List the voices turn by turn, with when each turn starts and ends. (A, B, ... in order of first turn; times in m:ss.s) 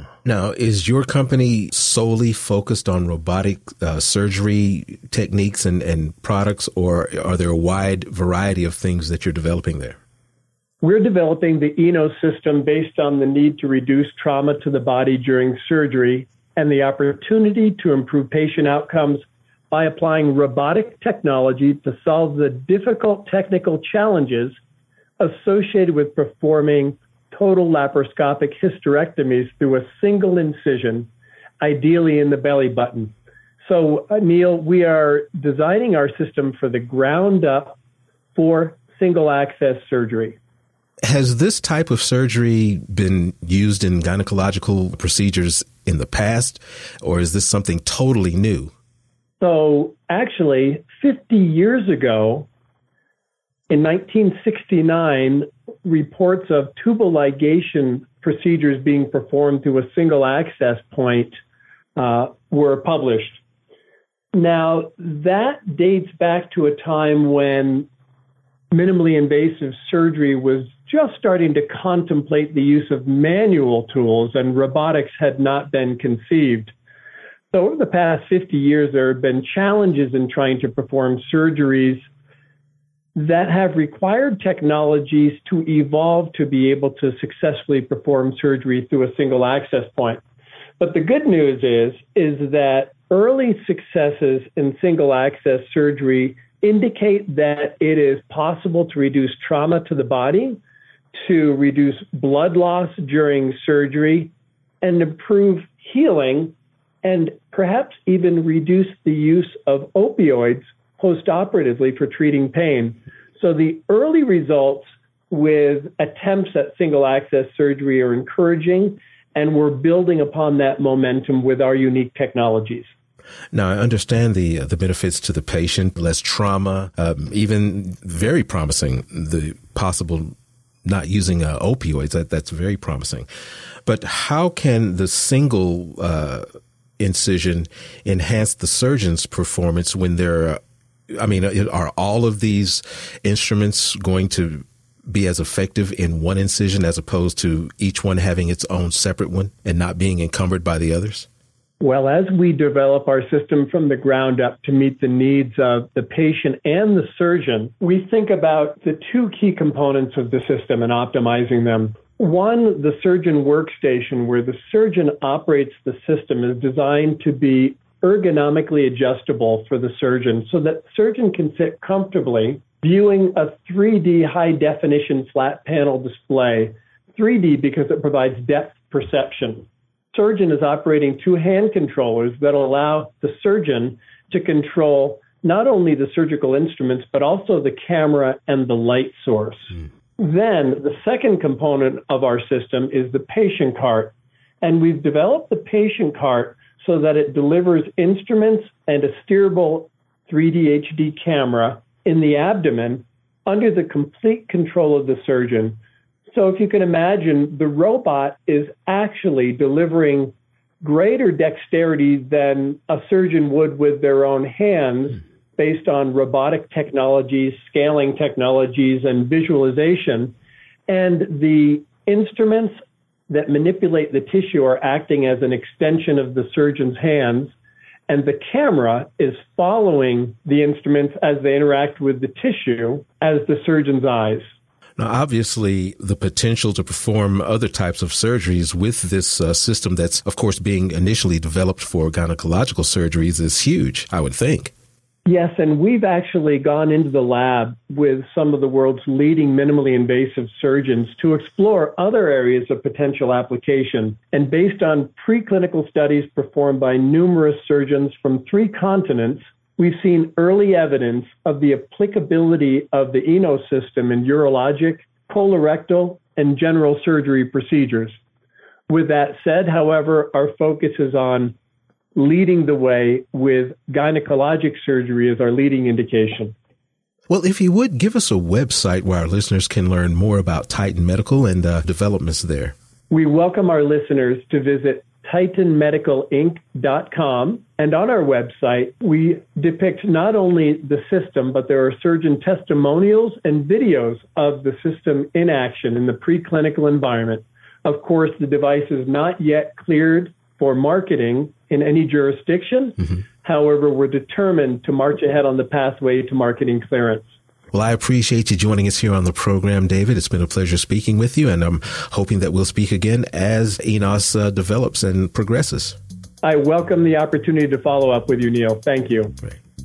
0:00.2-0:10.0 A
0:10.8-0:24.6 B
0:25.2-0:31.1 B
0:31.6-0:37.8 B
0:38.4-0:40.4 B
0:41.1-0:48.7 A
0:49.4-0:52.5 B
0:53.7-1:01.4 B
1:02.0-1:03.4 B
1:04.3-1:07.9 B
1:08.7-1:16.7 B
1:17.5-1:22.1 B
1:23.2-1:30.2 B
1:30.8-1:40.6 B
1:41.1-2:02.9 B
2:03.5-2:13.3 A
2:13.8-2:16.5 A
2:17.0-2:20.6 A
2:21.1-2:31.3 A
2:31.8-3:25.8 B
3:26.3-3:40.4 B
3:40.9-3:47.6 B
3:48.1-3:54.5 B
3:55.0-4:04.7 A
4:05.3-4:28.2 B
4:28.9-4:31.6 B
4:32.2-4:36.6 B
4:37.3-4:42.7 A
4:43.1-5:07.3 B
5:07.7-5:16.0 A
5:16.4-5:19.4 B